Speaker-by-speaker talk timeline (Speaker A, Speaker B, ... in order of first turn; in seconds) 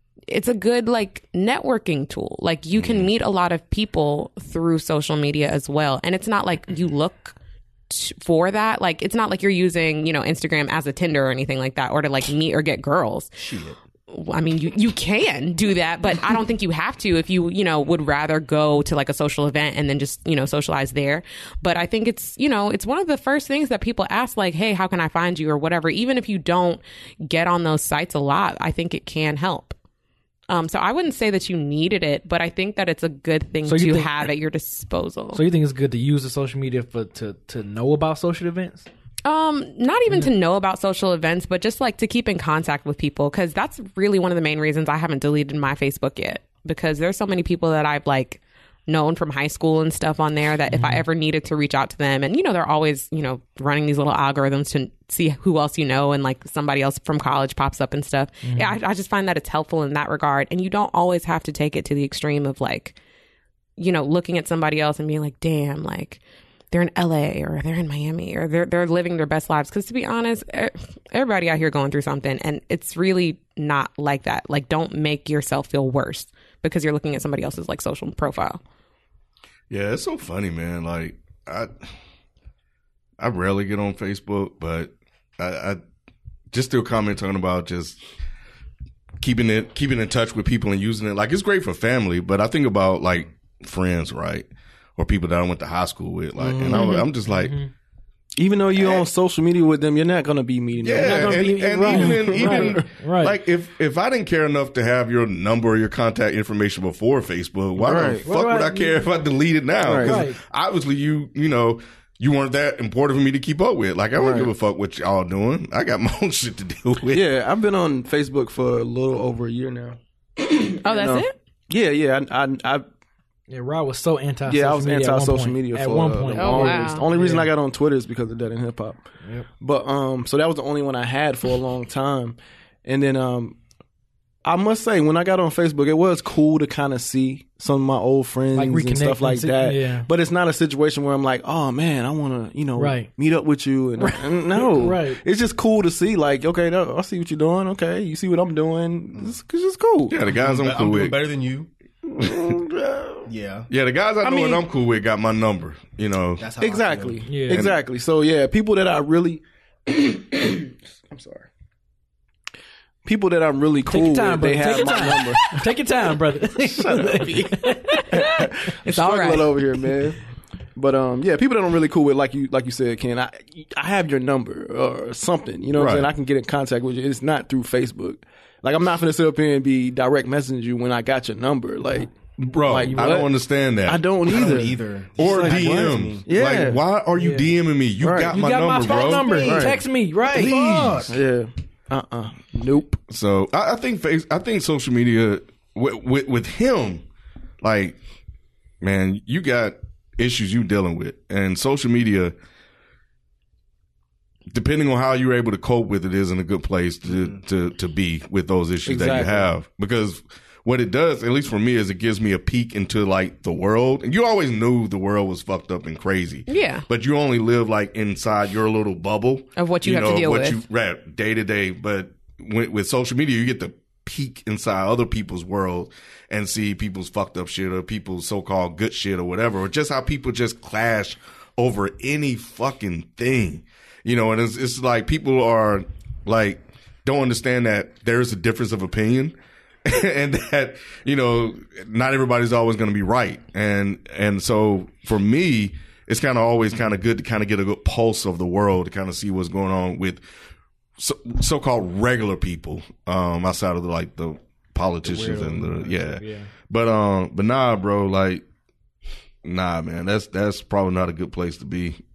Speaker A: 0.3-7.4, 7.9-13.3, 14.1-29.8, 30.5-35.4, 39.2-63.0, 63.8-78.6, 96.8-97.0, 120.8-121.3, 126.3-127.0, 167.9-169.5, 216.5-216.8, 219.6-220.6
Speaker B: 2.8-3.1, 79.7-81.8, 83.2-85.8, 86.5-88.0, 89.2-97.6, 98.8-99.0, 100.8-117.2, 150.1-151.2, 153.7-156.5, 157.5-157.8, 175.8-176.1, 182.4-184.6, 185.2-189.5, 193.1-197.1, 197.6-198.0, 198.8-202.3, 204.5-250.2, 251.0-258.4, 259.4-262.0
Speaker C: 13.4-13.8, 150.4-151.7, 153.3-153.7, 156.4-157.2, 184.2-186.2, 190.2-191.2, 255.1-255.7
Speaker D: 33.7-34.3, 35.3-38.9, 50.7-51.0, 58.4-58.8, 97.3-97.7, 101.0-103.4, 108.2-109.0, 110.0-110.4, 123.5-127.5, 138.5-140.1, 142.8-143.1, 144.0-145.2, 157.3-157.6, 163.9-168.1, 187.1-187.5, 188.3-190.6, 255.2-256.5
Speaker E: 96.4-97.0, 98.4-102.9, 107.8-108.3, 109.8-110.2, 114.2-114.5, 117.1-122.8, 124.5-129.1, 129.6-133.6, 134.4-150.5, 152.1-153.3, 154.2-154.6, 156.6-161.5, 163.1-165.6, 166.6-170.2, 170.8-186.8, 188.0-188.4, 189.2-189.8, 190.5-193.0, 208.9-209.5